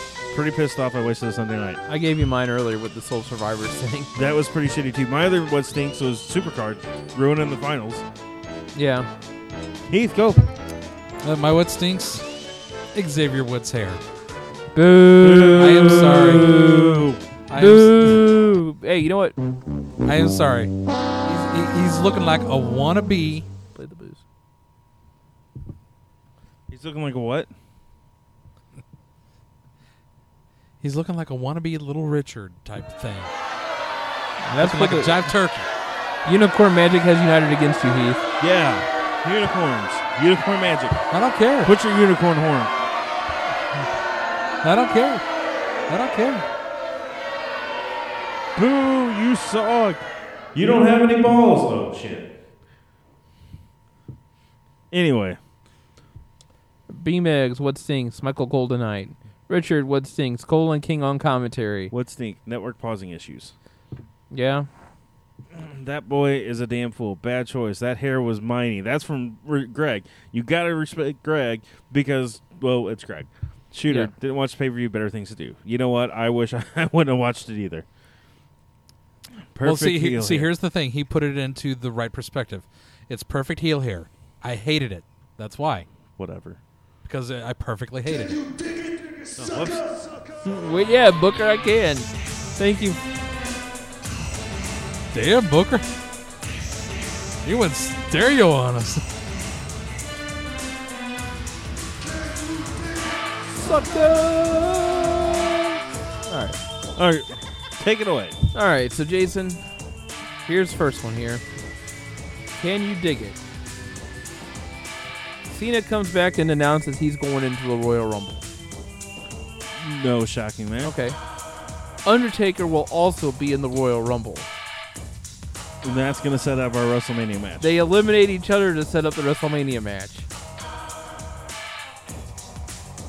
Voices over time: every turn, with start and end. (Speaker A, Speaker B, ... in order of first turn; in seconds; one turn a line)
Speaker A: 0.3-1.8
Speaker B: 1.9-4.1
Speaker A: 4.1-8.1
Speaker B: 8.7-9.1
Speaker A: 9.9-10.5
Speaker C: 11.2-12.3
Speaker C: 12.9-14.0
Speaker B: 14.7-15.7
Speaker A: 15.2-17.2
Speaker C: 15.6-16.7
Speaker C: 17.5-18.3
Speaker B: 17.6-19.4
Speaker C: 20.0-20.7
Speaker C: 21.2-23.5
Speaker B: 23.7-24.2
Speaker A: 26.7-27.5
Speaker C: 30.8-33.3
Speaker B: 34.4-35.3
Speaker C: 34.5-35.7
Speaker B: 36.2-38.2
Speaker A: 38.4-41.0
Speaker C: 41.1-41.7
Speaker A: 41.6-42.7
Speaker C: 44.6-45.2
Speaker C: 45.9-46.5
Speaker A: 48.5-50.0
Speaker A: 50.5-52.3
Speaker A: 54.9-55.4
Speaker B: 56.9-61.9
Speaker A: 61.9-63.5
Speaker B: 64.3-64.7
Speaker A: 65.5-77.9
Speaker A: 79.5-80.5
Speaker C: 79.6-85.9
Speaker A: 86.2-86.6
Speaker C: 87.0-88.4
Speaker A: 89.4-90.0
Speaker B: 90.4-93.0
Speaker C: 95.1-95.8
Speaker C: 97.4-99.0
Speaker B: 103.5-105.6
Speaker B: 106.3-106.6
Speaker A: 107.0-108.4
Speaker B: 108.5-109.8
Speaker B: 110.4-111.4
Speaker B: 112.6-113.4
Speaker B: 115.5-118.5
Speaker A: 119.8-120.9
Speaker B: 120.8-121.2
Speaker B: 122.0-124.5
Speaker A: 125.8-127.7
Speaker B: 127.6-130.2